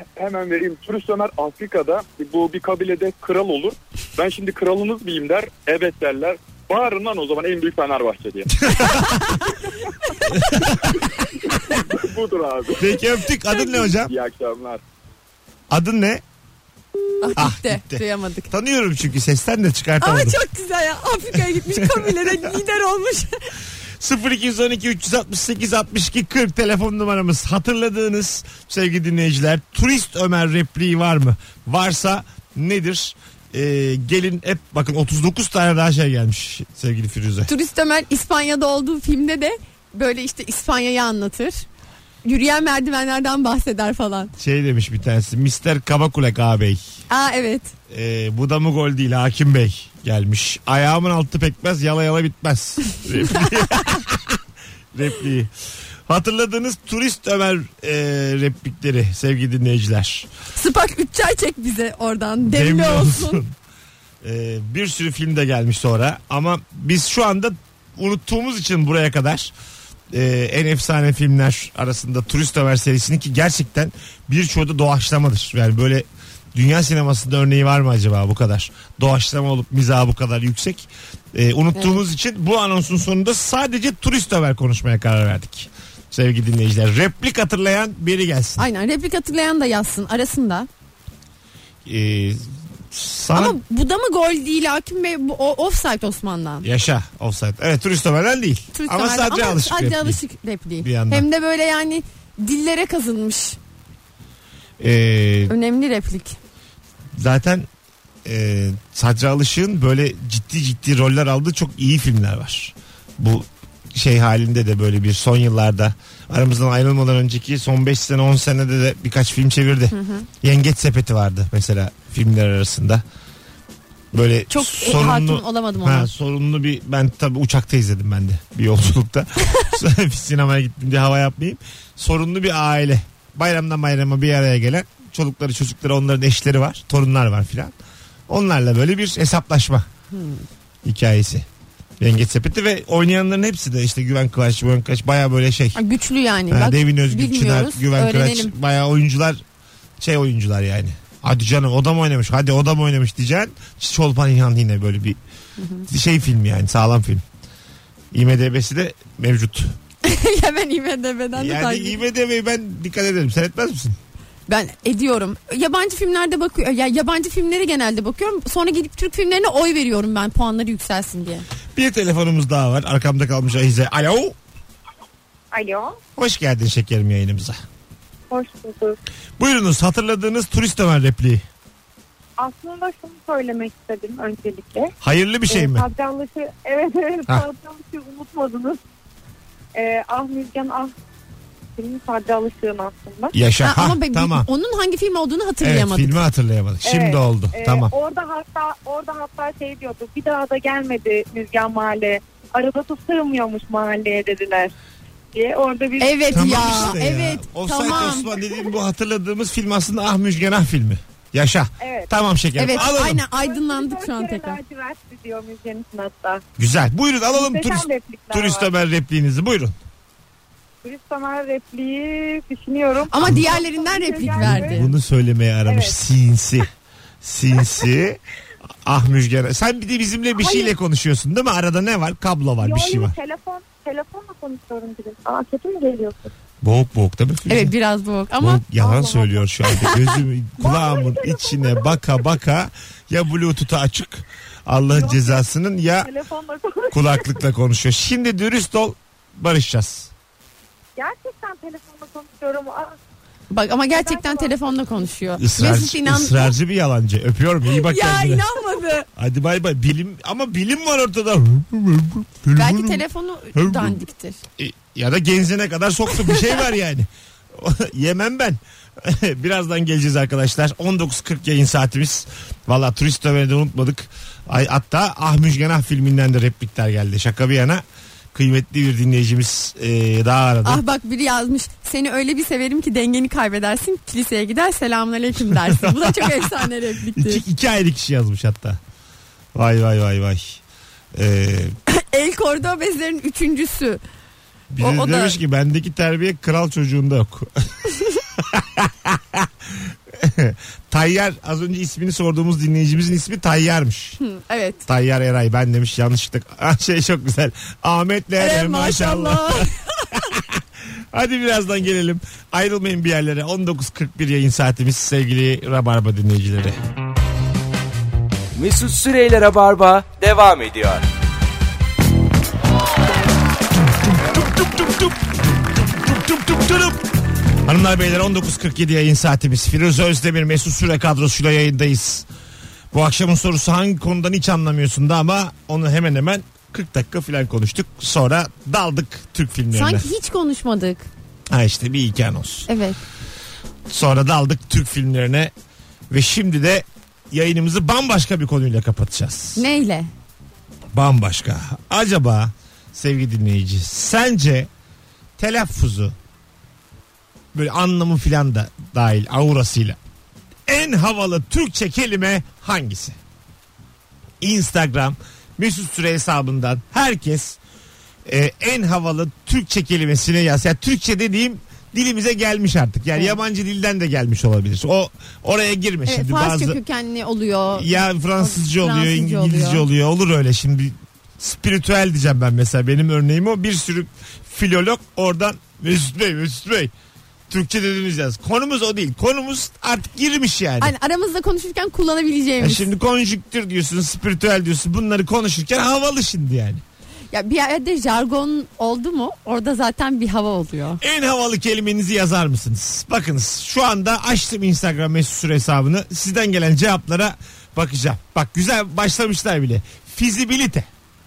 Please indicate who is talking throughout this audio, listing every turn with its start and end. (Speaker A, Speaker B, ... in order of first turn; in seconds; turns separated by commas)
Speaker A: 0.2-9.0, Speaker B: 8.6-9.5, Speaker C: 8.8-9.2, Speaker C: 10.2-10.7, Speaker A: 10.3-12.9, Speaker B: 10.3-11.0, Speaker B: 12.8-14.1, Speaker C: 13.6-13.9, Speaker A: 14.0-14.8, Speaker B: 15.7-16.2, Speaker C: 17.2-18.5, Speaker B: 17.4-20.4, Speaker C: 20.0-23.5, Speaker B: 21.7-22.4, Speaker B: 24.0-37.5, Speaker C: 37.5-41.7, Speaker C: 42.2-44.3, Speaker B: 44.4-46.8, Speaker C: 47.1-47.7, Speaker B: 47.9-54.4, Speaker B: 54.9-55.5, Speaker B: 56.0-60.3, Speaker C: 60.5-63.4, Speaker B: 62.4-63.5, Speaker B: 64.2-69.5, Speaker B: 70.1-88.7, Speaker C: 88.6-90.7, Speaker B: 91.8-93.6, Speaker C: 93.3-96.7, Speaker B: 96.6-100.2, Speaker C: 98.7-103.6, Speaker B: 100.8-101.2, Speaker B: 104.8-105.5, Speaker C: 105.5-106.4, Speaker B: 107.1-107.7, Speaker B: 108.2-123.0, Speaker C: 119.9-120.3, Speaker B: 124.1-137.7, Speaker C: 124.5-126.1, Speaker B: 138.3-139.9, Speaker C: 140.1-140.4, Speaker B: 140.8-141.4, Speaker B: 142.0-145.8, Speaker C: 145.7-148.5, Speaker B: 146.5-149.4, Speaker B: 150.0-155.2, Speaker C: 155.6-155.9, Speaker B: 155.9-157.2, Speaker B: 158.1-159.8, Speaker C: 160.0-162.0, Speaker B: 161.3-164.0, Speaker C: 164.5-171.4, Speaker B: 171.7-174.3, Speaker D: 175.5-176.0, Speaker B: 176.2-177.6, Speaker D: 178.3-179.0, Speaker B: 179.4-181.4, Speaker D: 182.4-184.9, Speaker B: 185.0-185.9, Speaker D: 185.5-188.8, Speaker D: 189.7-190.9, Speaker D: 191.8-193.3, Speaker B: 193.3-194.5, Speaker C: 193.6-196.2, Speaker B: 195.6-197.9, Speaker D: 196.8-204.7, Speaker D: 205.3-207.0, Speaker C: 206.0-208.3, Speaker B: 206.3-213.2, Speaker D: 207.9-208.6, Speaker D: 211.8-212.1, Speaker C: 212.6-214.6, Speaker D: 212.7-216.4, Speaker B: 216.6-219.8, Speaker D: 217.3-218.7, Speaker D: 220.8-224.9, Speaker C: 223.1-224.9, Speaker B: 224.3-226.7, Speaker D: 225.6-225.9, Speaker B: 227.2-228.2, Speaker B: 228.8-233.2, Speaker D: 230.4-230.7, Speaker D: 232.6-236.3, Speaker B: 236.6-237.7, Speaker C: 237.5-238.6, Speaker B: 238.4-246.1, Speaker D: 238.8-242.3, Speaker D: 244.9-245.4, Speaker D: 246.0-247.4, Speaker B: 246.9-250.1, Speaker D: 251.0-252.9, Speaker C: 253.5-256.5, Speaker D: 253.9-255.1, Speaker B: 255.4-258.5, Speaker C: 257.7-259.1, Speaker B: 259.1-263.0, Speaker C: 262.5-264.4, Speaker B: 263.5-264.0, Speaker B: 264.6-277.8, Speaker B: 278.3-280.8, Speaker C: 280.6-287.4, Speaker B: 285.5-288.8, Speaker B: 289.5-290.6, Speaker B: 291.1-291.8, Speaker C: 291.9-294.0, Speaker B: 294.7-304.2, Speaker C: 294.8-295.4, Speaker C: 304.2-304.8, Speaker B: 304.9-316.8, Speaker C: 308.4-310.1, Speaker E: 318.5-321.0, Speaker B: 324.0-327.1, Speaker B: 327.6-332.3, Speaker B: 332.9-340.1, Speaker C: 339.7-341.1, Speaker B: 341.5-342.7, Speaker C: 342.7-343.0, Speaker B: 343.9-345.5, Speaker B: 346.1-349.6, Speaker C: 349.6-350.1, Speaker B: 350.9-354.7, Speaker B: 355.4-356.1, Speaker B: 357.5-360.0, Speaker B: 360.7-363.2, Speaker B: 364.4-367.6, Speaker B: 368.2-376.8, Speaker C: 376.1-379.9, Speaker B: 377.7-386.9, Speaker B: 387.5-390.9, Speaker C: 390.8-392.9, Speaker B: 392.6-396.8, Speaker C: 397.3-401.0, Speaker B: 401.0-410.9